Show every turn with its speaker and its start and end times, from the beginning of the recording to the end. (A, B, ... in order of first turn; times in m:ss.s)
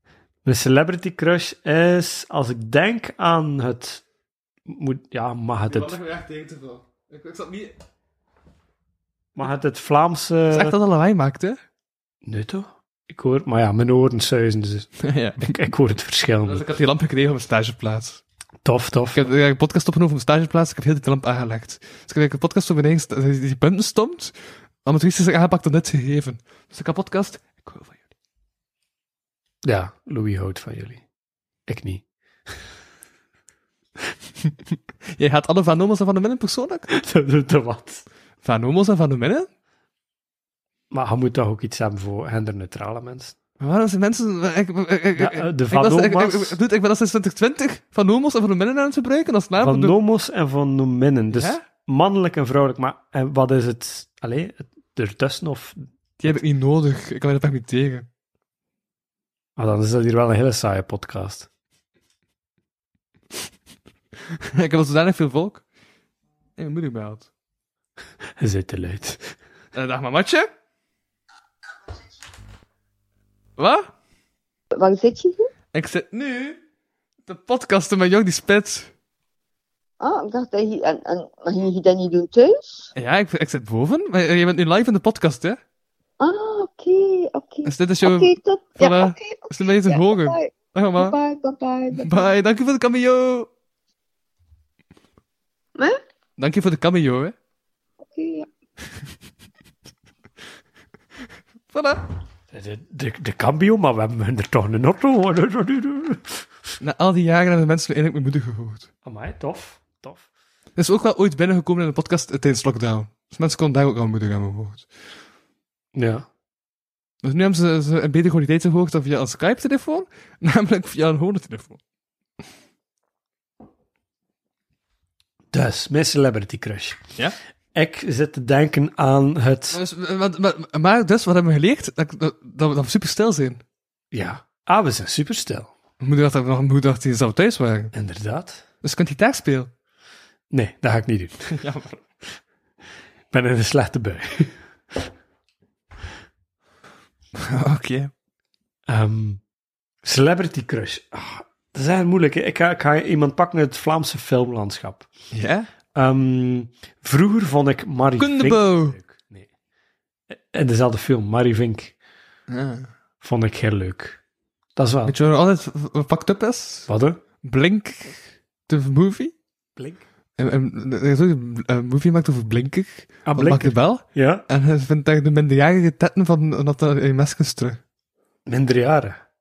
0:00.4-0:04.0 A
0:04.7-0:06.0 A
0:05.7-0:07.8 B
0:09.4-0:10.8 A
0:10.5-0:11.6 B
0:12.2-0:16.6 A
0:15.0-0:15.6 B
0:16.4-0:18.2 B
0:18.6-0:19.2 A
0:19.1-0:28.1 B
0:29.6-0:31.0 A
0:31.7-0:32.0 A
0:35.1-0:36.9 B
0:36.9-0:38.0 A
0:38.4-0:39.5 B
0:40.9-0:43.4 A
0:43.6-0:50.0 B
0:45.2-0:46.6 A
0:49.6-0:56.4 A
0:51.3-0:51.6 B
0:56.2-0:58.1 B
0:59.6-1:01.5 A
1:04.3-1:05.6 B
1:06.6-1:07.3 B
1:08.4-1:09.4 A
1:09.7-1:10.5 B
1:13.6-1:13.9 B
1:14.7-1:15.5 C
1:15.7-1:16.6 B
1:17.3-1:18.9 B
1:20.0-1:22.9 C
1:23.0-1:25.6 B
1:26.2-1:32.3 C
1:27.6-1:31.2 B
1:32.0-1:33.5 B
1:36.4-1:37.4 B
1:38.0-1:38.5 C
1:41.7-1:42.1 B
1:42.5-1:46.4 A
1:46.8-1:48.9 B
1:49.0-1:50.3 A
1:50.8-1:54.9 B
1:56.0-1:56.2 A
1:57.2-2:01.8 B
2:05.5-2:07.1 A
2:07.7-2:09.8 A
2:09.7-2:13.6 B
2:14.1-2:15.7 A
2:16.0-2:17.9 B
2:17.9-2:18.6 A
2:18.8-2:19.7 B
2:20.5-2:21.6 A
2:21.5-2:21.9 B
2:23.3-2:25.1 A
2:27.4-2:28.1 B
2:28.9-2:29.4 A
2:30.0-2:35.1 A
2:35.3-2:35.7 B
2:36.0-2:39.5 A
2:38.2-2:39.0 B
2:40.3-2:42.0 A
2:42.5-2:42.9 B
2:43.2-2:44.2 A
2:44.8-2:45.2 A
2:45.1-2:46.9 B
2:46.9-2:47.2 A
2:47.4-2:49.3 B
2:49.8-2:50.0 A
2:50.4-2:57.8 B
2:53.3-2:54.4 A
2:58.5-2:59.2 A